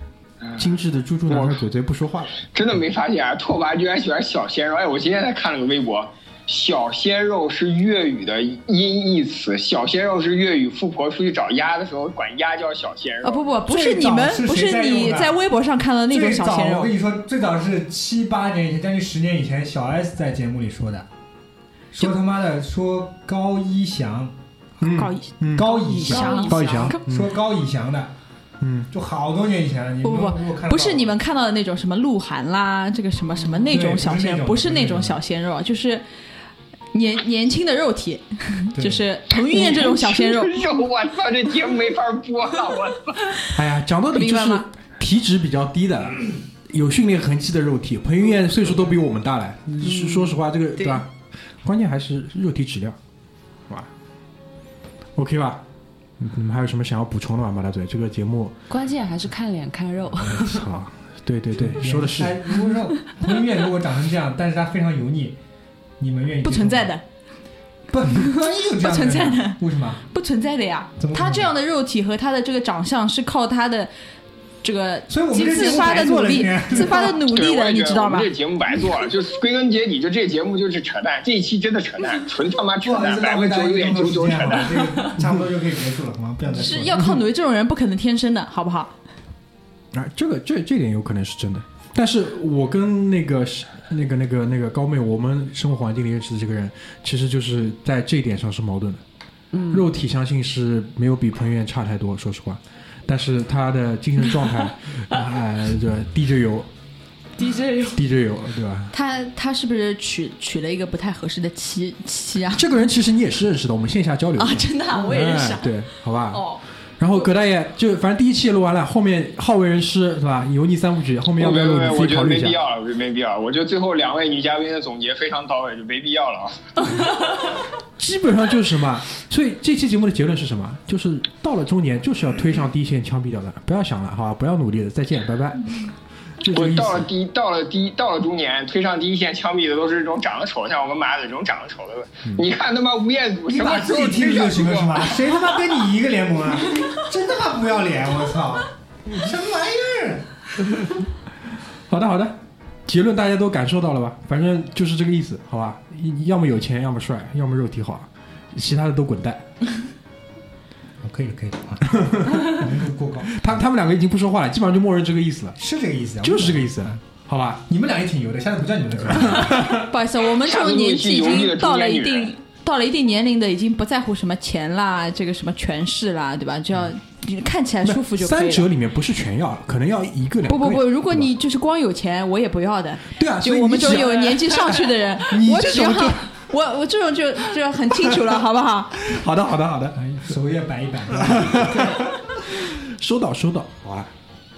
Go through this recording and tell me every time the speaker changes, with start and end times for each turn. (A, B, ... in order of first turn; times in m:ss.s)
0:00.6-0:02.4 A
0:01.3-0:01.6 B
0:02.4-0:13.5 B
0:13.2-0:16.9 C
0:13.6-0:15.4 D
0:16.1-0:21.1 D
0:21.9-0:24.3 D
0:24.8-0:25.7 A
0:24.9-0:27.0 C
0:25.5-0:28.1 D
0:25.8-0:26.7 E
0:26.5-0:27.3 A
0:28.6-0:28.9 A
0:28.9-0:31.2 D
0:30.0-0:36.0 C
0:33.7-0:35.2 D
0:36.9-0:40.6 C
0:38.7-0:39.0 D
0:39.4-0:43.4 B
0:43.5-0:53.0 A
0:44.1-0:44.6 C
0:49.8-0:50.4 E
0:50.8-0:51.0 C
0:55.2-0:55.6 A
0:56.2-0:58.6 A
0:58.7-1:00.6 E
1:00.3-1:02.6 A
1:01.6-1:05.4 D
1:06.0-1:07.0 D
1:06.4-1:07.0 C
1:07.9-1:10.0 D
1:08.7-1:13.9 C
1:11.0-1:11.5 D
1:14.6-1:19.0 C
1:15.1-1:17.2 D
1:16.8-1:25.0 B
1:22.8-1:27.0 D
1:26.5-1:28.9 C
1:29.9-1:39.0 A
1:39.5-1:39.9 E
1:39.7-1:46.7 A
1:47.4-1:48.0 E
1:47.9-1:48.9 A
1:48.9-1:52.7 C
1:52.5-2:02.6 A
1:54.4-1:55.8 C
1:56.3-1:56.6 C
2:01.4-2:07.0 B
2:08.0-2:15.8 A
2:16.4-2:17.1 A
2:16.5-2:25.3 B
2:23.4-2:30.3 D
2:31.9-2:39.5 A
2:41.0-2:43.6 D
2:42.0-2:42.5 A
2:43.4-2:45.6 A
2:45.6-2:47.0 D
2:46.2-2:47.6 A
2:47.6-2:49.6 D
2:49.0-2:49.9 A
2:49.6-2:58.7 C
2:50.2-2:52.3 B
2:57.8-3:01.3 A
3:00.5-3:09.0 C
3:03.1-3:06.3 A
3:08.1-3:08.4 A
3:09.0-3:10.0 A
3:10.0-3:11.9 D
3:11.1-3:14.1 A